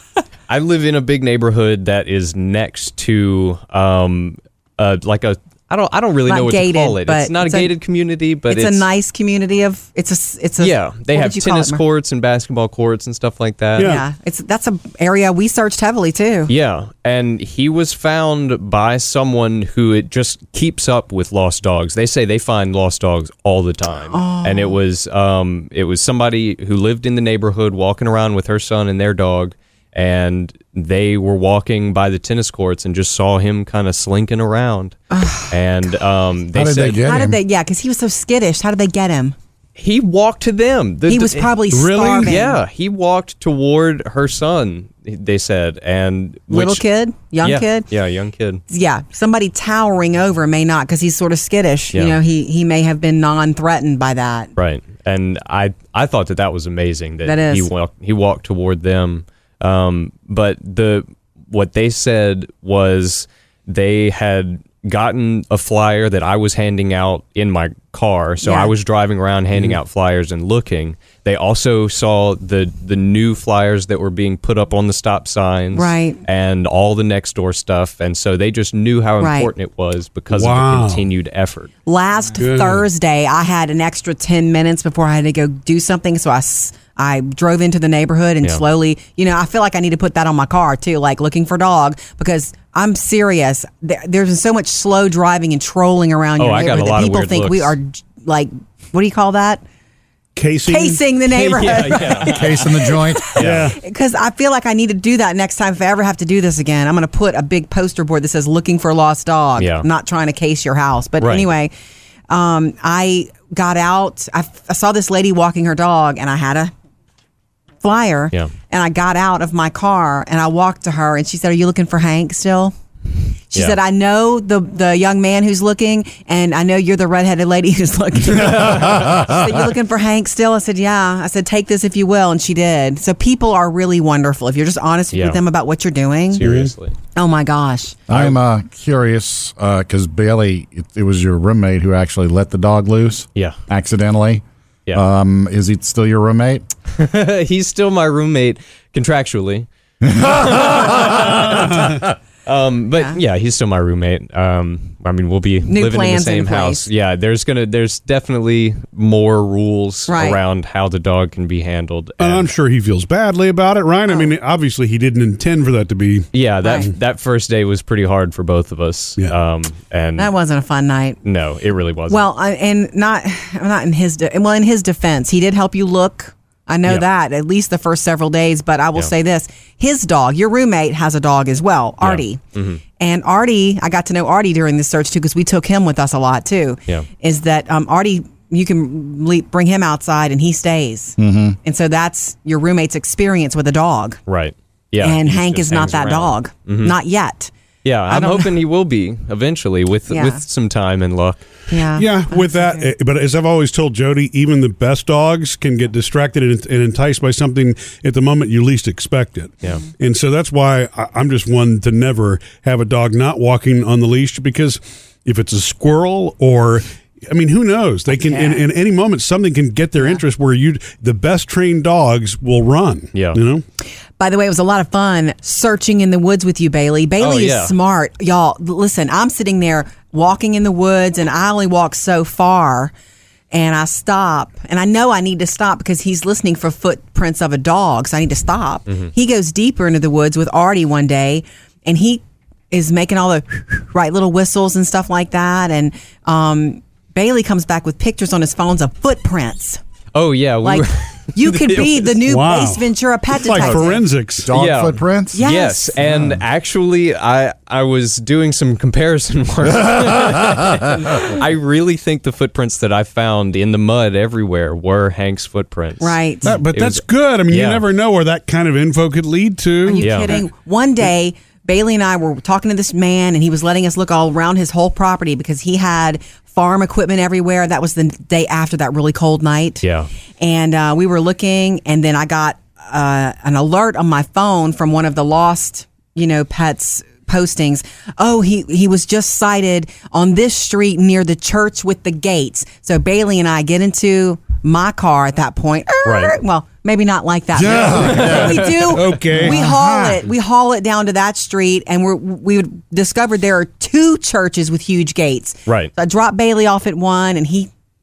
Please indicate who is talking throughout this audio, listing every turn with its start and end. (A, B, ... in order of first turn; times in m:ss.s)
0:00.5-0:08.9 A
0:06.2-0:07.7 B
0:08.5-0:11.8 B
0:10.6-0:14.0 A
0:13.8-0:14.0 C
0:13.8-0:16.5 B
0:16.5-0:35.0 A
0:24.1-0:24.8 B
0:35.1-0:35.5 B
0:35.5-0:37.1 A
0:36.5-0:37.4 D
0:37.0-0:39.3 B
0:39.8-0:41.6 A
0:41.1-0:42.6 B
0:41.7-0:42.4 C
0:42.2-0:46.8 A
0:46.5-0:47.9 B
0:47.4-0:48.6 A
0:48.7-0:54.5 B
0:51.9-0:52.2 A
0:54.6-1:21.7 A
0:57.2-0:57.7 B
1:08.4-1:08.7 B
1:15.7-1:16.2 B
1:19.2-1:19.5 B
1:20.3-1:21.0 C
1:21.8-1:39.6 B
1:22.4-1:22.8 C
1:36.4-1:37.7 A
1:40.4-1:41.0 C
1:40.7-1:51.7 B
1:41.3-1:42.7 A
1:42.2-1:43.3 D
1:43.4-1:43.7 A
1:43.4-1:43.8 C
1:49.6-1:49.8 A
1:51.2-1:51.5 A
1:52.3-1:56.7 B
1:57.8-2:02.7 B
2:03.5-2:16.4 B
2:15.1-2:15.4 A
2:16.3-2:16.9 A
2:16.4-2:16.7 C
2:17.1-2:18.0 B
2:18.1-2:26.6 D
2:18.1-2:18.4 A
2:26.9-2:42.5 A
2:35.6-2:36.9 B
2:40.1-2:40.4 B
2:42.2-2:46.9 C
2:46.3-2:50.3 A
2:46.6-2:46.9 B
2:50.2-2:51.2 B
2:51.2-2:52.3 A
2:52.1-3:02.4 B
3:02.0-3:02.8 A
3:03.0-3:14.2 B
3:11.2-3:11.6 D
3:14.3-3:16.9 A
3:15.0-3:17.5 B
3:17.8-3:21.4 A
3:18.1-3:18.6 B
3:20.1-3:20.4 B
3:21.7-3:22.9 B
3:21.9-3:43.6 C
3:38.3-3:38.6 B
3:43.1-3:43.4 A
3:44.2-3:52.9 B
3:47.2-3:47.7 A
3:53.5-4:09.8 B
4:10.1-4:12.1 A
4:10.6-4:14.0 B
4:12.3-4:14.5 C
4:14.4-4:15.4 D
4:14.5-4:27.8 A
4:15.3-4:15.9 B
4:16.0-4:16.4 D
4:26.0-4:26.6 B
4:26.4-4:30.4 C
4:29.8-4:39.8 B
4:30.0-4:30.4 A
4:39.8-4:40.1 A
4:40.4-5:07.7 B
4:56.0-4:56.4 A
4:57.6-4:58.6 D
4:57.7-5:00.2 C
4:58.1-4:58.7 A
4:59.4-4:59.7 D
5:05.7-5:05.9 A